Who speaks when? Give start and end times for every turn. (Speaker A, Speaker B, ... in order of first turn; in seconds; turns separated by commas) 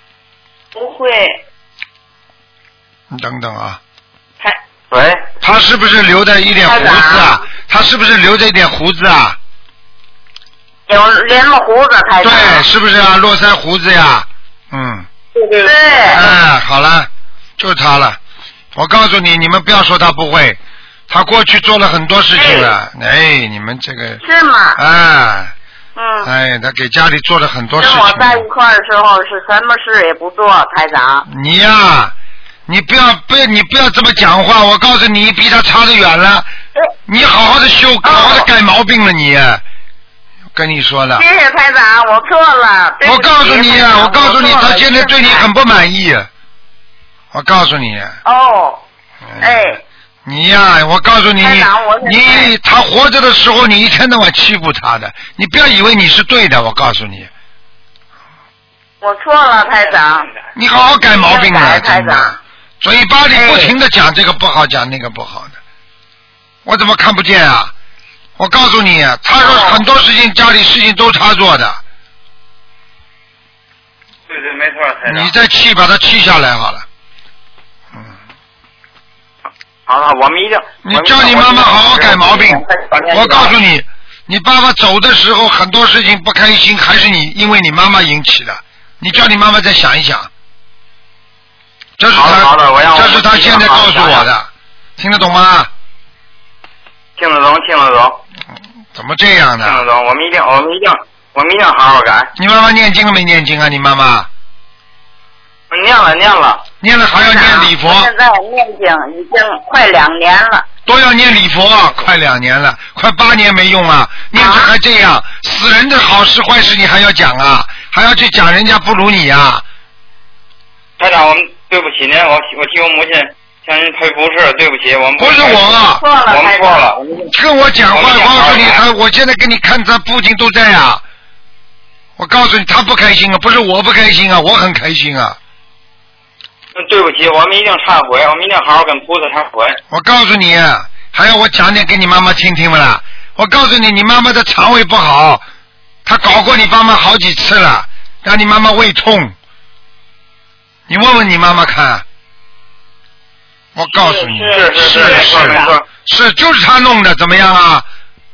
Speaker A: 0.7-1.4, Speaker B: 3.1-3.8, Speaker C: 4.9-5.3, Speaker B: 5.4-9.4, Speaker A: 6.6-7.4, Speaker A: 10.9-12.7, Speaker B: 12.2-15.1, Speaker C: 15.4-16.2, Speaker A: 15.6-16.3, Speaker B: 16.1-18.2, Speaker B: 18.8-24.2, Speaker A: 22.4-22.7, Speaker A: 24.2-24.8, Speaker B: 24.8-25.5, Speaker A: 26.0-26.3, Speaker B: 26.2-28.5, Speaker A: 27.8-31.3, Speaker B: 31.3-32.1, Speaker B: 32.7-36.5, Speaker B: 37.1-39.6, Speaker A: 38.0-38.5, Speaker B: 40.5-41.2, Speaker A: 41.2-45.5, Speaker B: 43.0-46.3, Speaker B: 47.3-48.2, Speaker A: 48.2-48.8, Speaker B: 49.3-57.3, Speaker A: 49.4-49.8, Speaker A: 51.4-52.5, Speaker A: 59.0-60.3, Speaker B: 60.5-65.6, Speaker A: 61.0-62.4, Speaker A: 63.3-63.7, Speaker B: 66.7-67.7, Speaker B: 68.4-71.8, Speaker A: 69.4-69.8, Speaker C: 74.3-75.3, Speaker B: 75.1-76.9, Speaker C: 79.9-83.6, Speaker B: 80.8-90.3, Speaker B: 92.0-95.7, Speaker C: 92.1-94.3, Speaker C: 97.2-98.2, Speaker B: 98.9-99.9, Speaker C: 99.6-102.3, Speaker B: 102.4-104.3, Speaker C: 105.7-106.6, Speaker B: 106.8-108.1, Speaker A: 107.2-110.7, Speaker B: 110.9-119.6, Speaker A: 114.3-114.7, Speaker C: 121.0-127.3, Speaker B: 125.2-126.0, Speaker A: 126.0-127.0, Speaker B: 127.3-131.0, Speaker C: 127.9-128.8, Speaker B: 132.2-135.4, Speaker C: 136.8-139.8, Speaker B: 139.9-145.4, Speaker B: 146.1-149.3, Speaker B: 150.9-152.1, Speaker B: 153.8-157.9, Speaker A: 153.9-155.8, Speaker C: 154.5-155.8